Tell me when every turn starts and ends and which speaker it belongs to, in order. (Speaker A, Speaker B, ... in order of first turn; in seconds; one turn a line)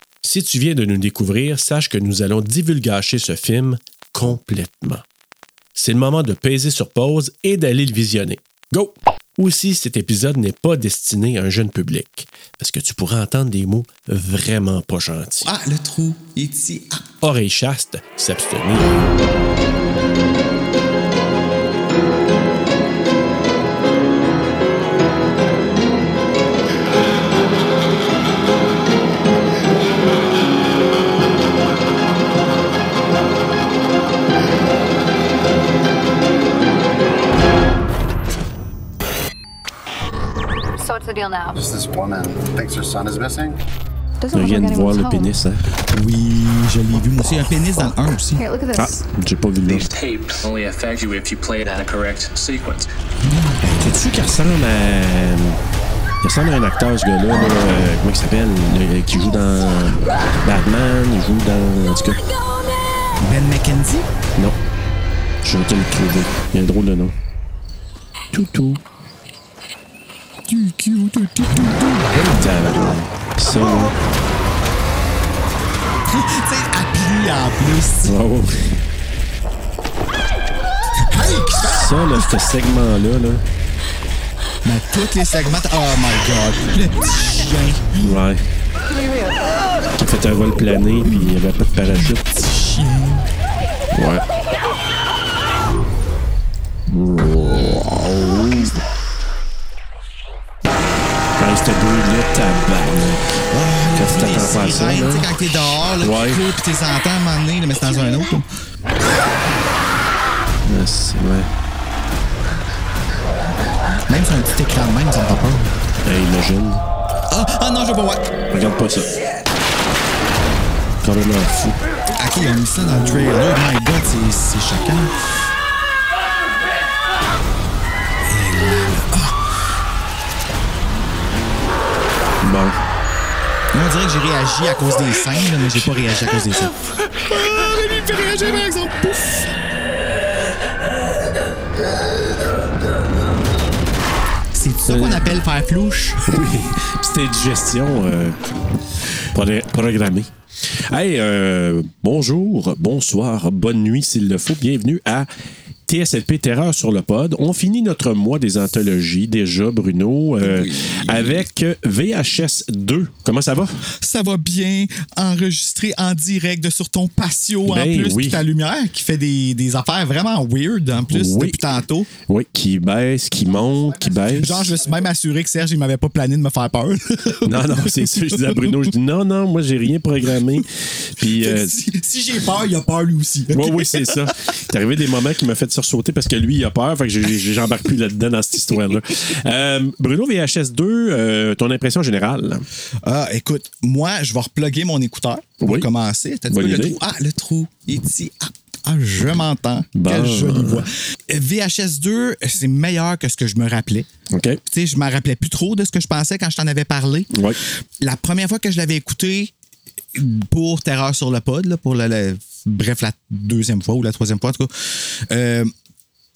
Speaker A: 0.2-5.0
Speaker A: 5.8-15.5
Speaker B: 15.4-17.0
Speaker A: 17.2-19.1
Speaker C: 40.8-41.6
Speaker D: 41.6-43.6
Speaker C: 44.2-45.4
Speaker A: 44.3-45.6
Speaker B: 45.9-48.4
Speaker C: 48.4-49.0
Speaker A: 48.7-49.9
Speaker E: 49.7-52.9
Speaker B: 53.2-54.0
Speaker A: 53.8-55.6
Speaker A: 56.2-62.3
Speaker B: 63.2-64.1
Speaker A: 65.4-67.2
Speaker A: 68.3-68.8
Speaker B: 70.5-74.0
Speaker A: 72.3-74.0
Speaker B: 76.1-78.2
Speaker A: 78.0-78.8
Speaker B: 81.0-82.3
Speaker A: 81.6-83.4
Speaker B: 84.6-88.2
Speaker A: 88.0-88.4
Speaker A: 90.0-92.3
Speaker B: 91.9-93.3
Speaker A: 93.9-94.2
Speaker A: 96.9-98.7
Speaker B: 98.5-98.7
Speaker A: 101.4-105.3
Speaker B: 103.5-108.5
Speaker A: 106.0-106.4
Speaker A: 110.6-111.5
Speaker B: 114.1-115.8
Speaker A: 116.0-116.8
Speaker B: 117.3-118.3
Speaker A: 118.5-119.1
Speaker A: 121.0-121.8
Speaker B: 122.2-125.2
Speaker B: 128.2-129.4
Speaker A: 132.4-132.8
Speaker B: 133.7-139.5
Speaker B: 144.5-146.2
Speaker A: 144.9-145.4
Speaker A: 146.2-148.4
Speaker A: 149.3-150.3
Speaker A: 150.9-155.3
Speaker A: 155.9-163.8
Speaker B: 160.4-161.4
Speaker B: 164.0-172.1
Speaker A: 167.7-168.4
Speaker A: 171.1-171.7
Speaker A: 172.3-174.7
Speaker B: 174.2-178.9
Speaker A: 177.4-181.8
Speaker B: 181.2-184.3
Speaker A: 183.5-192.6
Speaker B: 193.0-204.1
Speaker A: 195.6-195.9
Speaker A: 196.5-197.0
Speaker A: 199.9-200.9
Speaker A: 204.3-204.6
Speaker B: 204.7-207.3
Speaker A: 207.3-207.6
Speaker B: 208.0-209.5
Speaker B: 210.1-215.7